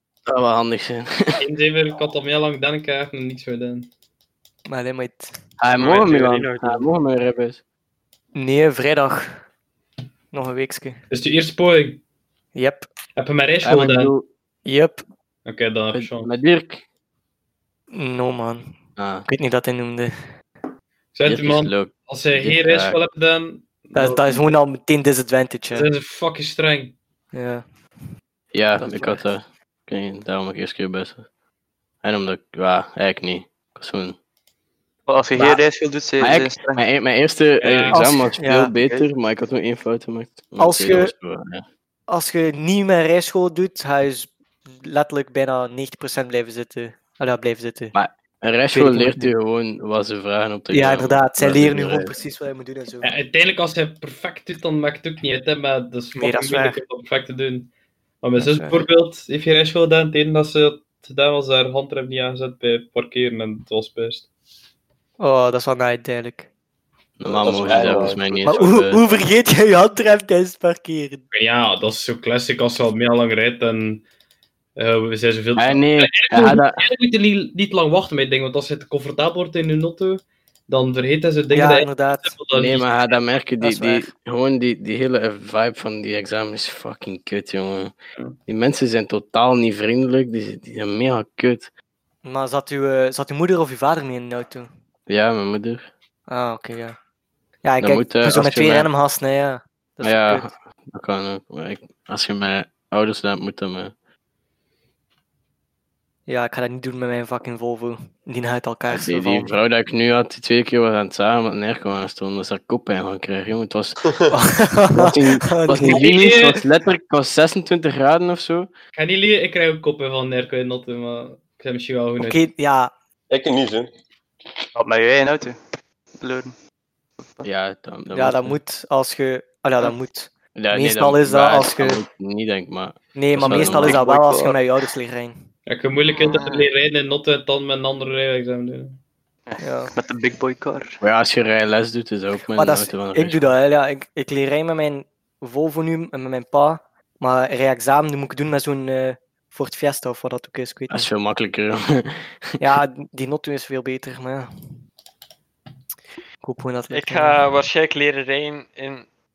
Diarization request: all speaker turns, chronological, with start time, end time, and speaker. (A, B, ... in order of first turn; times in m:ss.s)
0:00.2-0:01.4 A
0:01.4-0:03.9 B
0:04.7-0:05.3 C
0:05.6-0:07.6 A
0:05.7-0:06.8 D
0:08.3-0:09.4 C
0:10.3-0:11.0 C
0:11.1-0:12.0 B
0:12.5-0:12.9 C
0:13.2-0:14.1 B
0:13.6-0:14.3 A
0:14.6-0:15.0 C
0:15.4-0:16.3 B
0:15.9-0:16.8 A
0:17.9-0:18.8 C
0:19.0-0:19.3 A
0:19.3-0:20.1 C
0:21.1-0:24.5 B
0:21.2-0:23.0 A
0:23.9-0:25.9 C
0:25.7-0:26.9 B
0:27.3-0:27.6 C
0:28.5-0:31.2 A
0:28.8-0:29.2 C
0:32.0-0:34.2 A
0:35.1-0:36.8 E
0:36.2-0:41.6 A
0:37.6-0:38.0 B
0:37.9-0:38.7 C
0:38.7-0:39.1 E
0:40.6-0:41.1 C
0:42.1-0:47.9 C
0:47.9-0:52.1 A
0:48.7-0:49.3 C
0:50.7-0:53.1 C
0:53.0-0:57.7 B
0:56.2-0:56.8 C
0:58.2-1:04.2 B
0:58.4-0:58.8 C
1:05.2-1:06.5 C
1:07.2-1:09.0 A
1:07.2-1:08.5 F
1:08.4-1:11.2 C
1:11.3-1:14.0 B
1:14.8-1:22.9 B
1:15.6-1:16.8 A
1:21.5-1:22.3 C
1:22.5-1:27.9 A
1:23.6-1:24.1 C
1:28.5-1:31.7 A
1:32.2-1:34.7 C
1:35.1-1:35.9 A
1:36.3-1:37.0 C
1:37.6-1:40.5 C
1:37.8-1:38.9 A
1:40.0-1:43.9 A
1:46.3-1:49.5 C
1:48.9-1:54.0 A
1:54.3-1:56.1 C
1:54.9-1:58.7 A
1:55.9-1:56.6 B
1:58.9-2:02.4 B
2:02.2-2:02.9 C
2:03.3-2:03.9 F
2:04.7-2:05.6 E
2:06.2-2:06.6 E
2:07.2-2:07.5 E
2:07.4-2:08.6 A
2:08.1-2:12.0 C
2:10.5-2:14.0 A
2:13.1-2:15.4 C
2:13.6-2:14.6 E
2:15.7-2:19.0 B
2:19.5-2:21.0 E
2:19.6-2:19.9 C
2:21.0-2:23.5 A
2:22.6-2:31.1 C
2:30.9-2:32.3 A
2:32.6-2:34.5 C
2:36.4-2:37.4 C
2:36.9-2:39.1 D